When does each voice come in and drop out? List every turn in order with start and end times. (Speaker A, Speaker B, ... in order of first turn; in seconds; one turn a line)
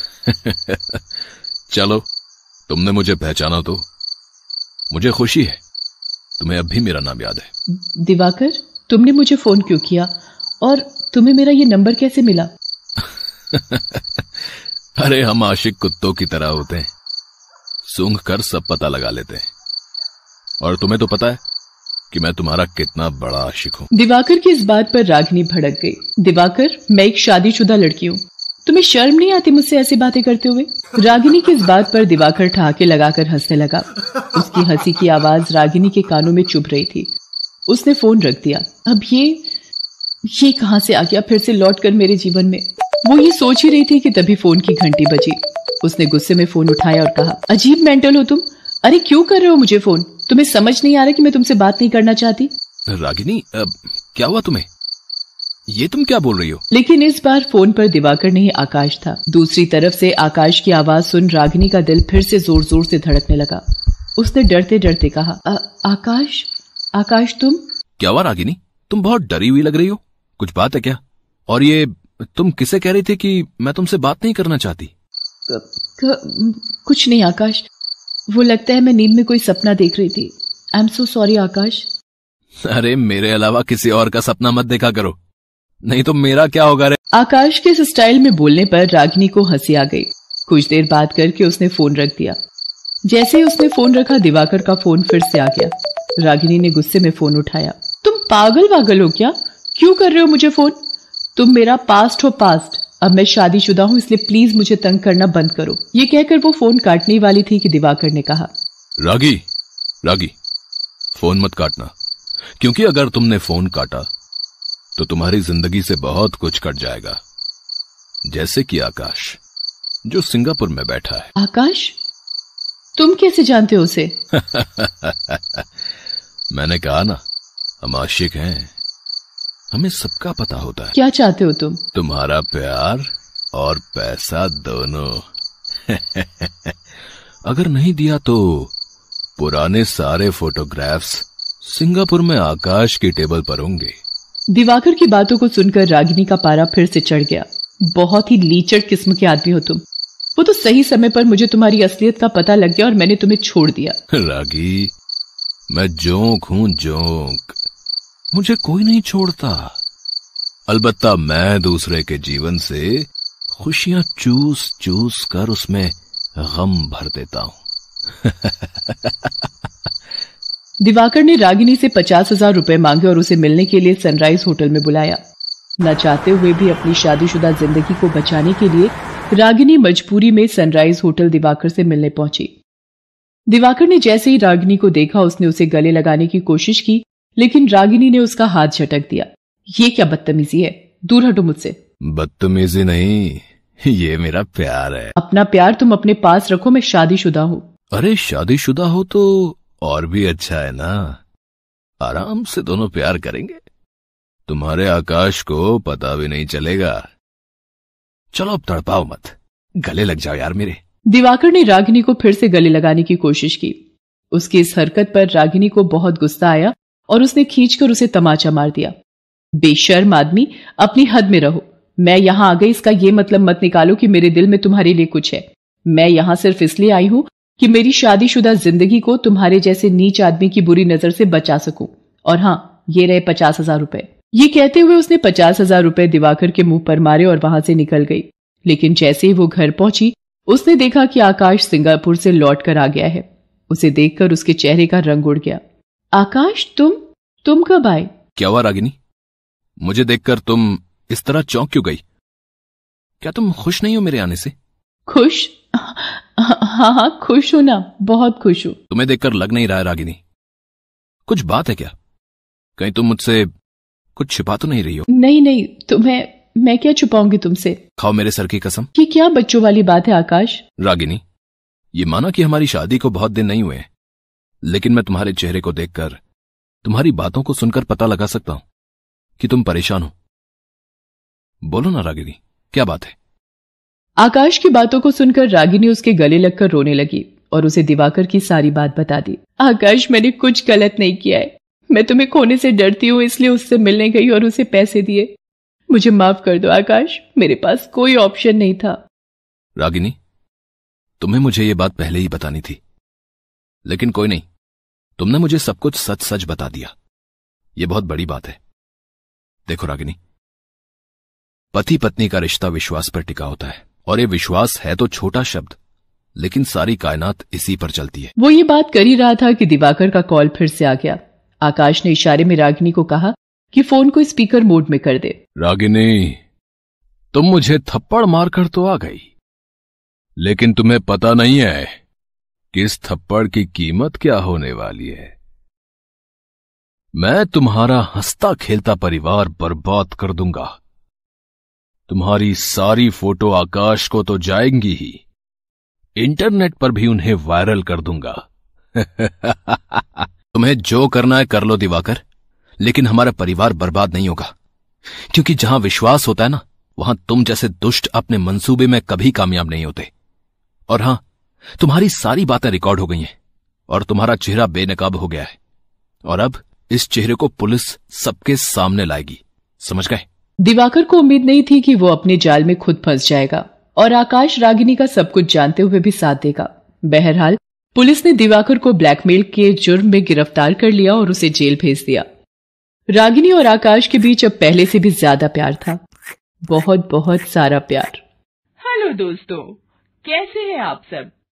Speaker A: 0.3-1.0
Speaker A: 1.7-2.0
Speaker A: 2.7-3.8
Speaker A: 4.9-5.6
Speaker A: 6.4-7.5
Speaker B: 7.8-12.5
Speaker A: 13.5-14.2
Speaker A: 15.0-16.9
Speaker A: 17.9-19.4
Speaker A: 20.6-21.4
Speaker A: 22.1-23.9
Speaker B: 23.9-37.1
Speaker B: 37.7-39.5
Speaker B: 40.3-52.5
Speaker A: 52.9-54.6
Speaker A: 55.7-56.6
Speaker B: 56.7-63.6
Speaker B: 64.2-67.6
Speaker A: 68.0-74.9
Speaker B: 75.5-77.7
Speaker B: 78.3-81.9
Speaker A: 82.6-85.2
Speaker A: 85.8-87.0
Speaker B: 87.1-92.4
Speaker B: 93.1-100.8
Speaker B: 101.3-108.5
Speaker A: 109.0-109.4
Speaker A: 110.0-110.3
Speaker A: 111.1-111.9
Speaker A: 112.6-114.1
Speaker A: 115.0-117.2
Speaker A: 118.3-119.4
Speaker A: 120.1-121.3
Speaker B: 121.4-122.0
Speaker B: 123.0-124.2
Speaker A: 124.3-125.6
Speaker A: 126.5-127.2
Speaker A: 127.8-128.7
Speaker A: 129.7-130.9
Speaker B: 130.9-131.8
Speaker A: 131.9-135.2
Speaker A: 135.9-136.7
Speaker A: 137.5-138.7
Speaker A: 139.4-143.9
Speaker B: 144.5-149.8
Speaker B: 150.4-154.0
Speaker A: 154.1-154.9
Speaker A: 155.7-157.6
Speaker A: 158.3-159.8
Speaker A: 160.7-167.6
Speaker A: 168.2-169.3
Speaker B: 170.8-175.2
Speaker B: 175.8-182.5
Speaker B: 183.5-191.8
Speaker A: 192.1-195.2
Speaker B: 195.2-197.7
Speaker A: 197.9-201.2
Speaker A: 202.0-203.6
Speaker A: 204.5-207.1
Speaker A: 208.3-210.8
Speaker B: 211.1-213.8
Speaker B: 214.3-218.9
Speaker B: 219.6-245.6
Speaker B: 246.1-248.1
Speaker A: 248.4-248.9
Speaker A: 249.8-252.0
Speaker A: 253.2-254.5
Speaker B: 255.1-258.8
Speaker A: 258.9-260.2
Speaker A: 261.3-261.9
Speaker A: 262.8-263.5
Speaker A: 264.2-265.1
Speaker B: 265.1-267.8
Speaker A: 268.0-268.9
Speaker B: 268.9-270.6
Speaker A: 270.8-271.2
Speaker A: 271.9-273.9
Speaker A: 274.7-276.2
Speaker A: 276.8-278.6
Speaker A: 279.4-280.1
Speaker A: 281.7-283.1
Speaker B: 284.2-295.3
Speaker B: 295.9-299.0
Speaker A: 299.8-300.2
Speaker A: 301.2-302.8
Speaker A: 303.9-304.4
Speaker A: 305.2-306.9
Speaker A: 307.8-308.6
Speaker A: 309.7-310.2
Speaker A: 311.7-315.8
Speaker A: 316.4-318.3
Speaker B: 318.4-325.4
Speaker A: 325.6-326.4
Speaker A: 327.3-329.3
Speaker A: 330.4-332.0
Speaker A: 332.7-335.4
Speaker A: 337.2-340.8
Speaker A: 342.1-345.2
Speaker A: 346.2-352.2
Speaker A: 352.8-354.5
Speaker A: 355.3-360.1
Speaker A: 360.9-361.2
Speaker A: 361.8-363.3
Speaker A: 363.9-365.6
Speaker A: 366.3-370.2
Speaker B: 370.6-382.2
Speaker B: 383.1-386.0
Speaker B: 386.7-388.2
Speaker C: 388.8-391.3